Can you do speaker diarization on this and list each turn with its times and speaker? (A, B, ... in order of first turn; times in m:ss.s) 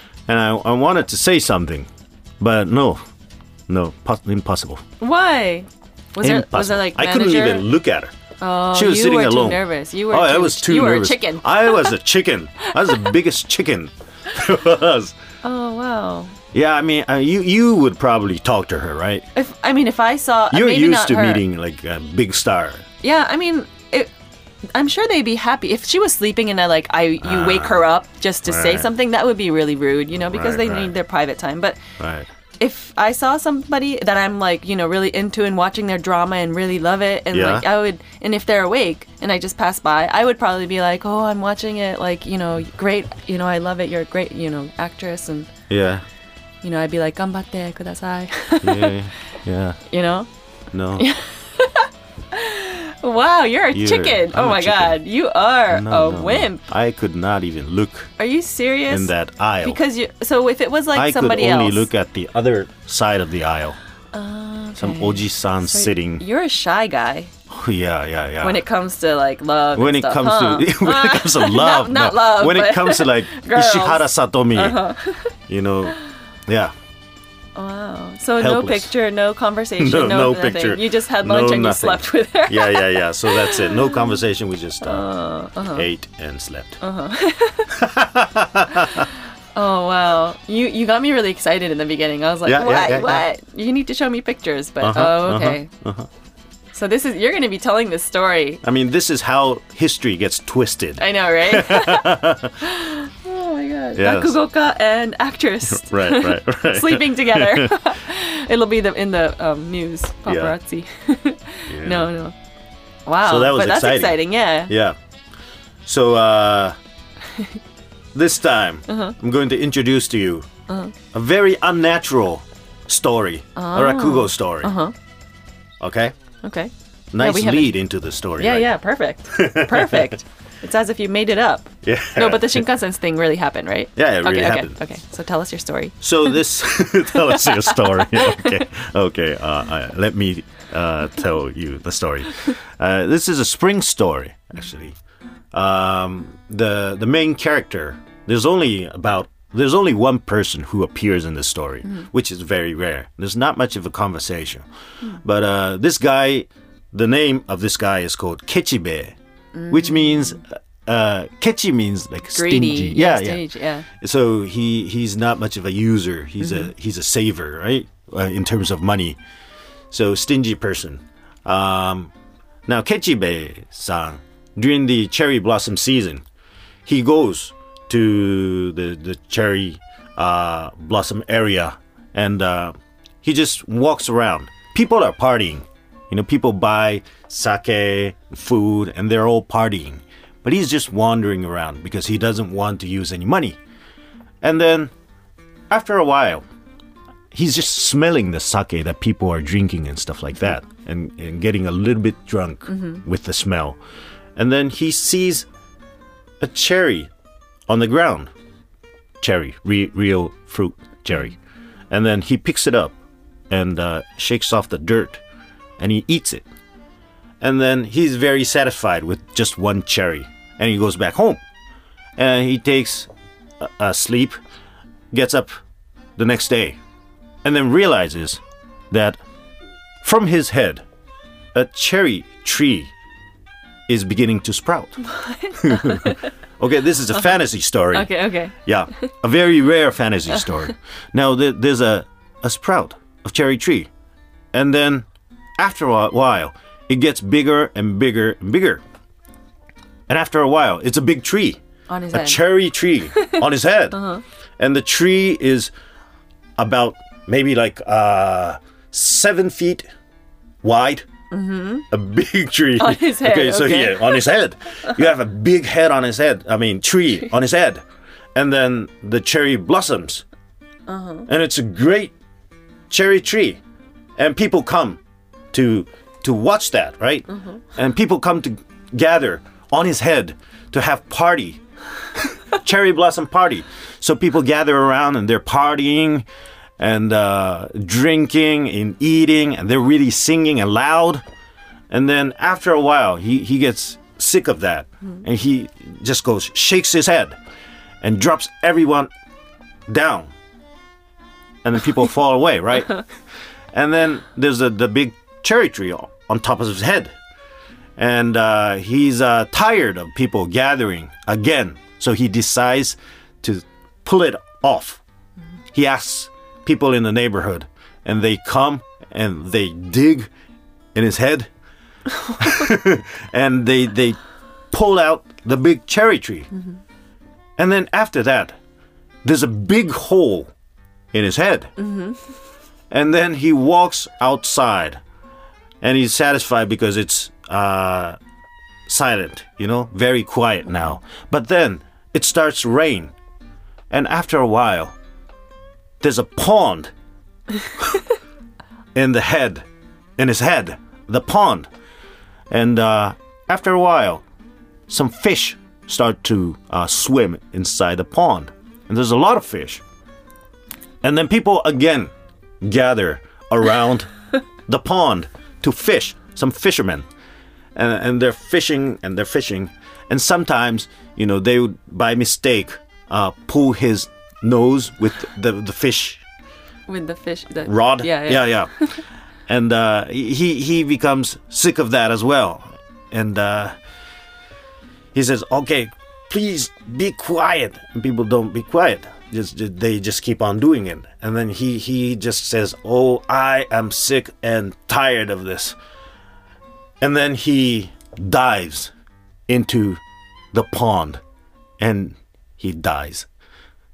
0:00.3-0:01.9 A
0:02.4-0:03.0 A
0:03.7-0:04.8 A
0:05.0-0:07.7 B
0:06.2-0:08.1 A
0:08.4-0:11.9 B
0:08.7-0:15.1 A
0:12.8-0:13.1 B
0:15.4-0:16.3 B
0:16.5-0:19.2 A
0:19.3-0:21.4 B
0:20.5-0:22.8 A
0:23.0-0:24.1 B
0:24.7-0:31.8 B
0:27.2-0:27.9 A
0:28.5-0:28.9 A
0:30.1-0:30.9 A
0:32.0-0:32.3 A
0:32.6-0:45.5 B
0:37.3-0:37.7 A
0:45.7-0:46.0 A
0:46.6-0:49.0 B
0:48.6-0:49.8 A
0:49.9-0:50.3 B
0:50.7-0:51.1 A
0:51.0-0:56.6 B
0:53.7-0:55.0 A
0:55.7-0:58.1 A
0:58.2-1:01.9 B
0:58.9-0:59.8 A
1:00.9-1:03.8 A
1:04.1-1:07.3 B
1:04.8-1:06.2 A
1:07.5-1:08.6 A
1:08.4-1:15.3 B
1:09.7-1:14.8 A
1:15.5-1:16.0 A
1:16.5-1:16.7 A
1:17.6-1:24.2 B
1:18.4-1:18.9 A
1:19.8-1:25.1 A
1:24.8-1:25.9 B
1:25.7-1:26.8 A
1:26.8-1:27.7 B
1:27.7-1:29.0 A
1:29.5-1:35.7 B
1:32.4-1:33.2 A
1:34.8-1:36.1 A
1:36.7-1:38.6 B
1:38.6-1:42.6 A
1:41.0-1:52.3 B
1:44.0-1:44.4 A
1:45.7-1:47.8 A
1:50.2-1:50.6 A
1:51.7-1:52.1 A
1:53.0-1:54.7 B
1:53.2-1:55.0 A
1:55.8-1:56.8 A
1:58.1-2:00.5 A
1:58.9-1:59.1 B
2:00.7-2:00.9 B
2:01.1-2:04.7 A
2:03.6-2:04.9 B
2:05.8-2:06.1 A
2:06.4-2:07.7 B
2:07.1-2:08.7 A
2:08.4-2:16.4 B
2:09.3-2:10.1 A
2:11.8-2:12.6 A
2:14.0-2:14.8 A
2:16.0-2:25.0 A
2:17.1-2:18.6 B
2:25.5-2:34.6 A
2:35.2-2:39.1 A
2:39.5-2:40.4 B
2:39.7-2:43.4 A
2:42.3-2:43.8 B
2:44.0-2:49.2 A
2:46.4-2:46.7 B
2:49.9-2:52.1 A
2:52.7-2:56.2 A
2:56.8-3:13.6 A
3:14.4-3:14.9 A
3:15.7-3:16.4 A
3:17.3-3:23.8 A
3:22.7-3:23.0 B
3:24.4-3:25.5 A
3:26.4-3:27.1 A
3:27.7-3:28.3 A
3:29.2-3:31.4 A
3:31.9-3:32.9 A
3:33.5-3:35.2 A
3:35.8-3:36.4 A
3:37.4-3:41.4 A
3:42.2-3:43.1 A
3:43.6-3:44.4 A
3:45.1-3:45.5 A
3:46.2-3:46.8 A
3:47.4-3:49.2 A
3:50.0-3:50.8 A
3:51.5-3:52.9 A
3:53.9-3:55.0 A
3:55.0-3:56.3 B
3:55.6-3:58.1 A
3:57.9-3:59.0 B
3:58.6-4:03.9 A
4:04.5-4:05.0 A
4:05.6-4:08.8 A
4:10.1-4:11.6 A
4:11.9-4:12.5 B
4:12.1-4:14.0 A
4:13.9-4:14.2 B
4:14.6-4:15.7 A
4:16.6-4:19.8 A
4:20.6-4:21.0 A
4:21.3-4:21.8 B
4:21.9-4:27.8 A
4:22.8-4:24.4 B
4:28.3-4:30.2 A
4:30.9-4:31.3 B
4:31.3-4:32.1 A
4:32.9-4:33.6 A
4:34.2-4:35.0 A
4:35.5-4:41.6 A
4:42.5-4:46.2 A
4:46.8-4:51.2 A
4:51.9-4:57.4 A
4:58.0-4:59.1 A
4:59.9-5:00.3 A
5:01.6-5:03.0 A
5:03.7-5:07.1 A
5:08.0-5:15.0 A
5:15.7-5:20.3 A
5:20.9-5:21.5 A
5:22.4-5:24.2 A
5:24.7-5:26.5 A
5:27.6-5:28.5 A
5:29.2-5:30.5 A
5:31.1-5:31.7 A
5:31.8-5:32.2 B
5:32.9-5:35.0 A
5:35.8-5:38.2 A
5:38.9-5:43.1 A
5:43.9-5:44.9 A
5:46.0-5:46.9 A
5:48.9-5:49.6 A
5:50.2-5:51.7 A
5:52.5-5:54.2 A
5:54.9-5:59.8 A
6:01.0-6:04.1 A
6:04.7-6:07.0 A
6:07.7-6:16.2 A
6:16.9-6:19.0 B
6:17.7-6:18.7 A
6:19.5-6:23.7 A
6:25.1-6:35.8 A
6:37.0-6:38.9 A
6:39.5-6:40.0 A
6:40.5-6:41.2 A
6:41.8-6:43.3 A